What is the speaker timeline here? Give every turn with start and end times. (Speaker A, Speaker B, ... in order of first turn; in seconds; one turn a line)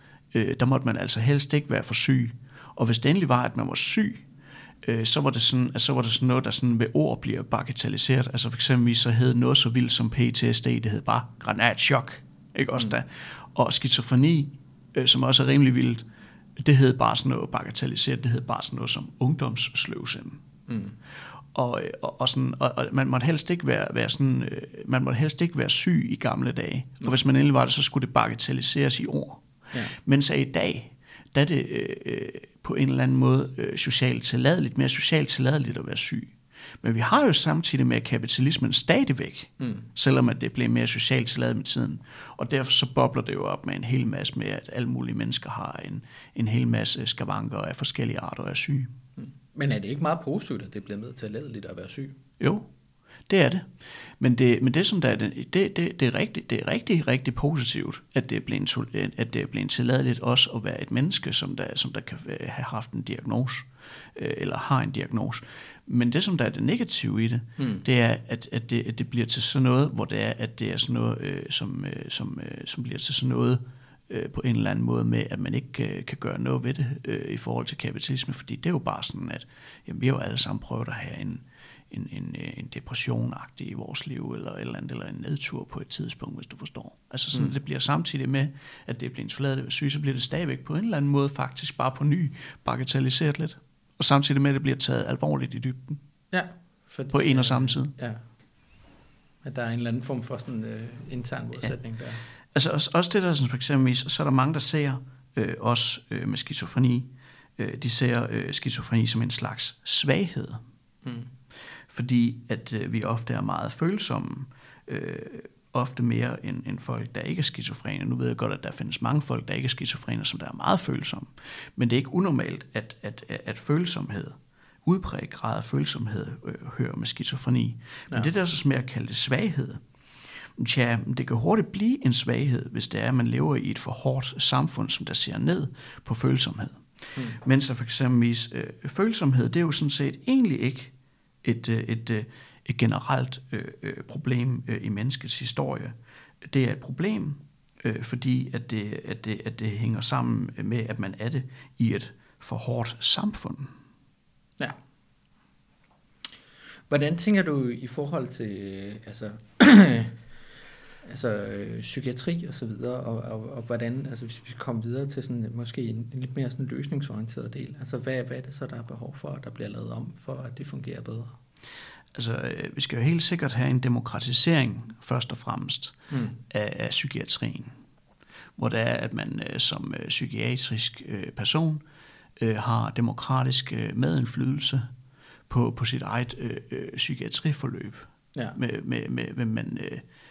Speaker A: 0.3-4.3
Speaker A: 4.8-20.4
Speaker B: 20.7-21.0
Speaker A: 21.5-48.9
Speaker B: 39.6-39.9
Speaker B: 49.2-52.2
Speaker A: 52.4-52.7
Speaker A: 53.3-96.0
Speaker B: 67.6-67.8
Speaker B: 96.3-98.2
Speaker A: 97.1-97.9
Speaker B: 99.4-102.2
Speaker A: 102.5-110.6
Speaker B: 111.0-111.3
Speaker A: 111.9-153.7
Speaker B: 156.9-160.2
Speaker B: 161.0-171.4
Speaker A: 172.1-177.8
Speaker B: 176.1-176.4
Speaker A: 178.6-181.8
Speaker A: 182.4-184.9
Speaker A: 185.5-190.1